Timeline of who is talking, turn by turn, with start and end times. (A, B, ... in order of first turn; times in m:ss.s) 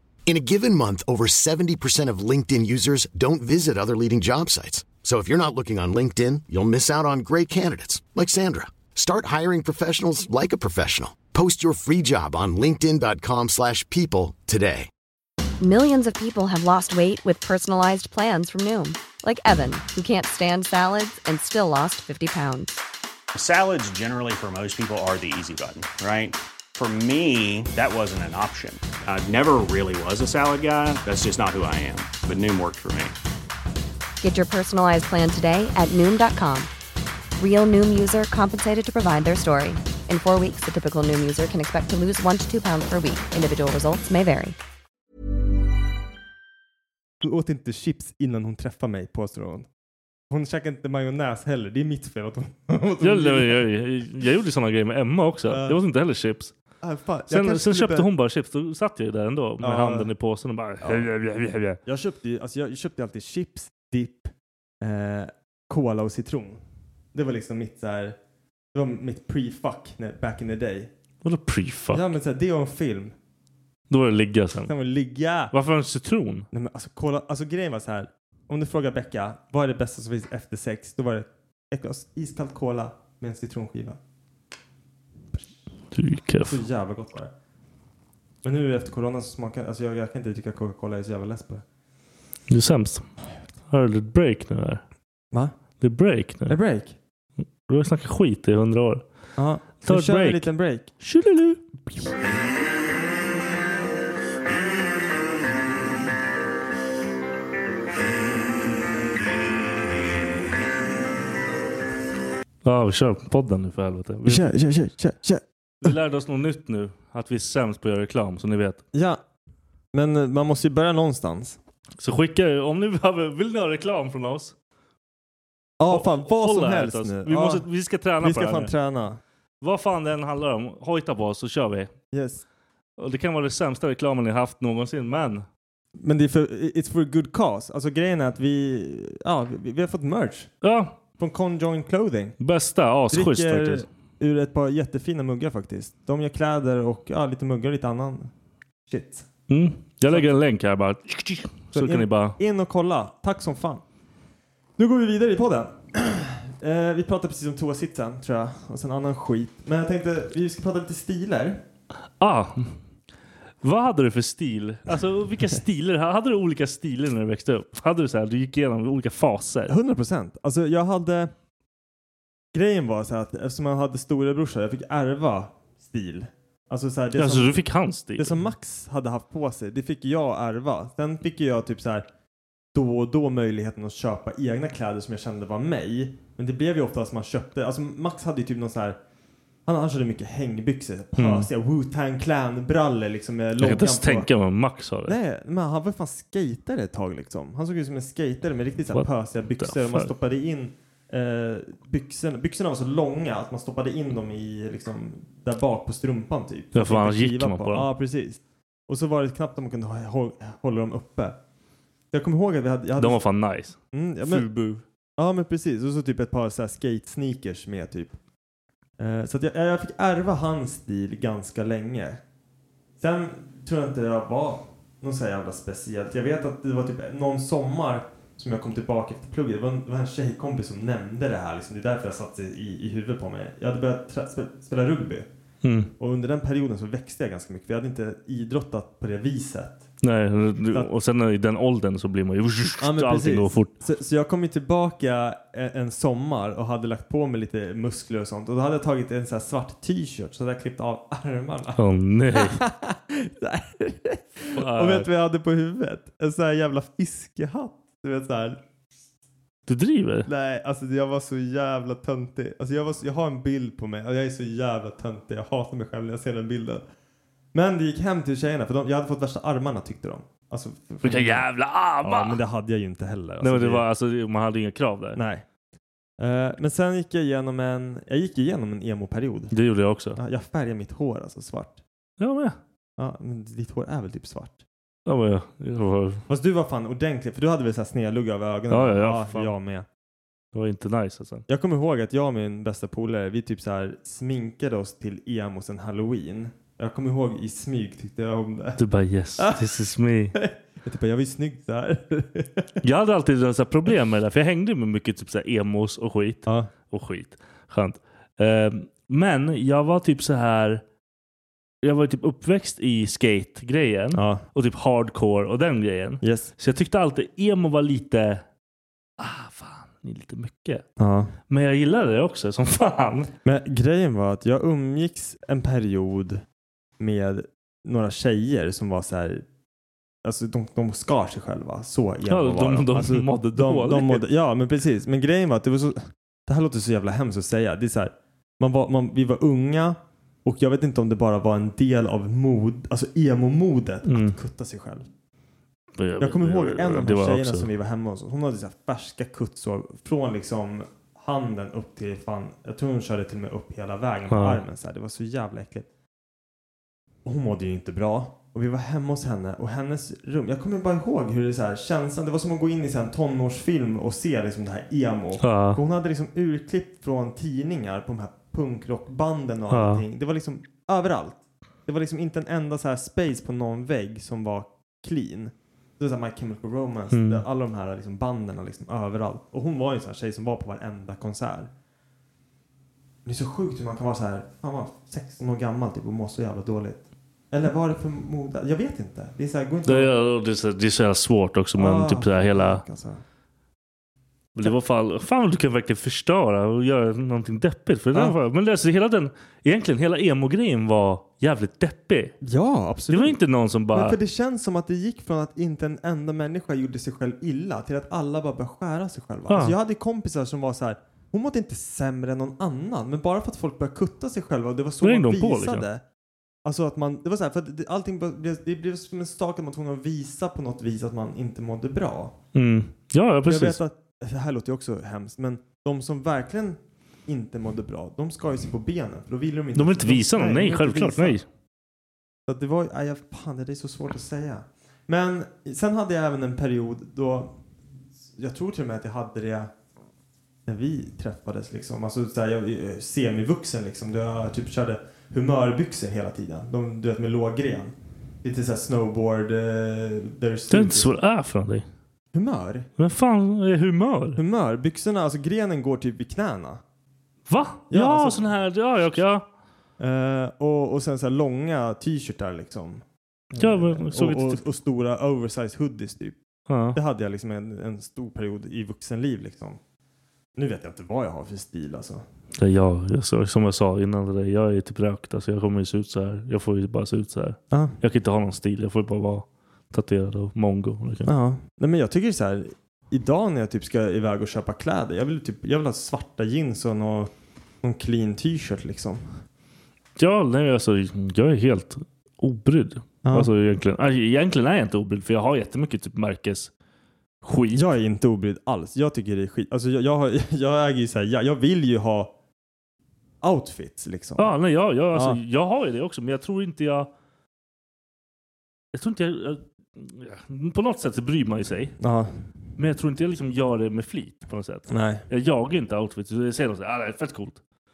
0:00.3-0:14.9 A
0:15.6-0:22.8 B
0:23.3-0:33.1 C
0:34.2-0:36.7 B
0:37.4-0:44.6 B
0:47.2-0:49.7 D
0:50.3-0:53.6 D
0:53.0-0:56.5 E
0:55.5-0:55.8 D
0:56.8-0:58.1 D
0:57.3-1:01.8 E
0:59.6-1:00.1 D
1:00.8-1:01.1 D
1:01.8-1:06.6 D
1:07.1-1:08.2 D
1:08.7-1:10.9 D
1:11.2-1:12.1 E
1:11.9-1:13.2 D
1:13.9-1:14.7 E
1:14.6-1:15.5 D
1:15.5-1:16.5 E
1:16.5-1:24.0 D
1:25.9-1:26.6 E
1:26.5-1:27.3 D
1:28.4-1:31.6 D
1:32.5-1:33.1 E
1:33.7-1:34.8 E
1:35.8-1:36.6 E
1:36.5-1:37.0 D
1:37.7-1:39.0 E
1:39.4-1:40.9 D
1:39.8-1:40.5 E
1:41.0-1:41.6 E
1:52.6-1:54.5 E
1:54.2-1:55.9 D
1:55.8-1:58.8 E
1:58.9-1:59.2 D
1:59.9-2:01.6 D
2:02.0-2:04.5 E
2:05.8-2:07.6 D
2:05.9-2:08.7 E
2:08.2-2:09.2 D
2:09.6-2:11.9 E
2:12.1-2:12.4 D
2:13.0-2:15.5 E
2:16.0-2:20.5 D
2:20.6-2:21.0 E
2:21.2-2:22.4 D
2:22.4-2:23.9 E
2:23.1-2:28.3 D
2:28.9-2:29.3 D
2:29.5-2:32.4 E
2:31.7-2:33.8 D
2:34.8-2:41.6 D
2:42.2-2:42.8 E
2:43.6-2:49.7 E
2:49.7-2:51.3 D
2:52.5-2:57.6 D
2:57.2-2:58.4 E
2:58.2-3:02.0 D
3:02.7-3:09.0 D
3:09.7-3:14.3 D
3:11.2-3:11.5 E
3:13.6-3:15.2 E
3:15.1-3:31.4 D
3:19.6-3:20.1 E
3:26.7-3:27.9 E
3:32.1-3:33.2 D
3:33.0-3:34.8 E
3:33.9-3:34.4 D
3:35.2-3:38.1 D
3:39.0-3:42.2 D
3:43.0-3:55.3 D
3:55.6-3:55.9 E
3:56.0-3:59.8 D
4:00.0-4:03.7 E
4:02.8-4:11.8 D
4:11.8-4:12.6 E
4:12.3-4:18.6 D
4:14.5-4:15.1 E
4:19.7-4:20.3 E
4:20.3-4:26.8 D
4:27.5-4:31.4 D
4:31.0-4:32.4 E
4:32.0-4:33.8 D
4:33.4-4:35.2 E
4:35.2-4:35.4 D
4:36.2-4:39.5 D
4:39.5-4:40.2 E
4:40.2-4:41.8 D
4:42.2-4:42.6 E
4:43.0-4:44.6 D
4:45.1-4:46.2 E
4:46.3-4:49.9 D
4:48.7-4:49.5 E
4:50.5-4:51.4 E
4:51.5-4:58.8 D
4:58.8-5:00.4 E
5:00.4-5:02.8 D
5:02.8-5:10.8 E
5:11.8-5:18.4 E
5:14.1-5:14.4 D
5:16.2-5:16.5 D
5:19.2-5:20.8 E
5:21.0-5:21.3 D
5:21.5-5:23.3 E
5:23.4-5:26.4 D
5:27.0-5:29.4 D
5:30.2-5:45.1 D
5:32.3-5:34.2 E
5:44.0-5:44.4 E
5:46.0-5:47.7 E
5:46.2-5:55.9 D
5:54.3-5:54.6 E
5:57.2-6:21.7 D
6:05.4-6:05.8 E
6:09.7-6:10.0 E
6:17.1-6:17.4 E
6:23.2-6:30.1 D
6:29.9-6:32.8 E
6:31.8-6:33.2 D
6:34.6-6:42.4 E
6:42.4-6:43.4 D
6:43.1-6:44.2 E
6:43.9-6:56.0 D
6:49.5-6:49.8 E
6:55.0-6:55.9 E
6:56.6-7:02.4 D
7:02.6-7:03.8 E
7:03.4-7:11.4 D
7:09.7-7:11.4 E
7:12.5-7:17.5 D
7:18.3-7:19.7 D
7:20.7-7:31.1 D
7:30.7-7:31.8 E
7:32.3-7:32.9 D
7:33.0-7:34.4 E
7:34.4-7:36.8 D
7:37.5-7:39.4 E
7:37.9-7:38.5 D
7:40.0-7:46.4 D
7:43.6-7:44.6 E
7:46.7-7:47.0 E
7:47.0-7:49.8 D
7:50.6-7:52.2 D
7:52.6-8:01.3 E
8:01.3-8:07.3 D
8:07.8-8:09.3 D
8:10.2-8:16.7 E
8:13.2-8:13.5 D
8:17.4-8:17.8 E
8:17.7-8:22.3 D
8:23.4-8:24.5 D
8:24.4-8:27.1 E
8:25.1-8:25.4 D
8:28.9-8:32.0 E
8:32.0-8:32.3 D
8:32.8-8:37.6 E
8:34.9-8:35.2 D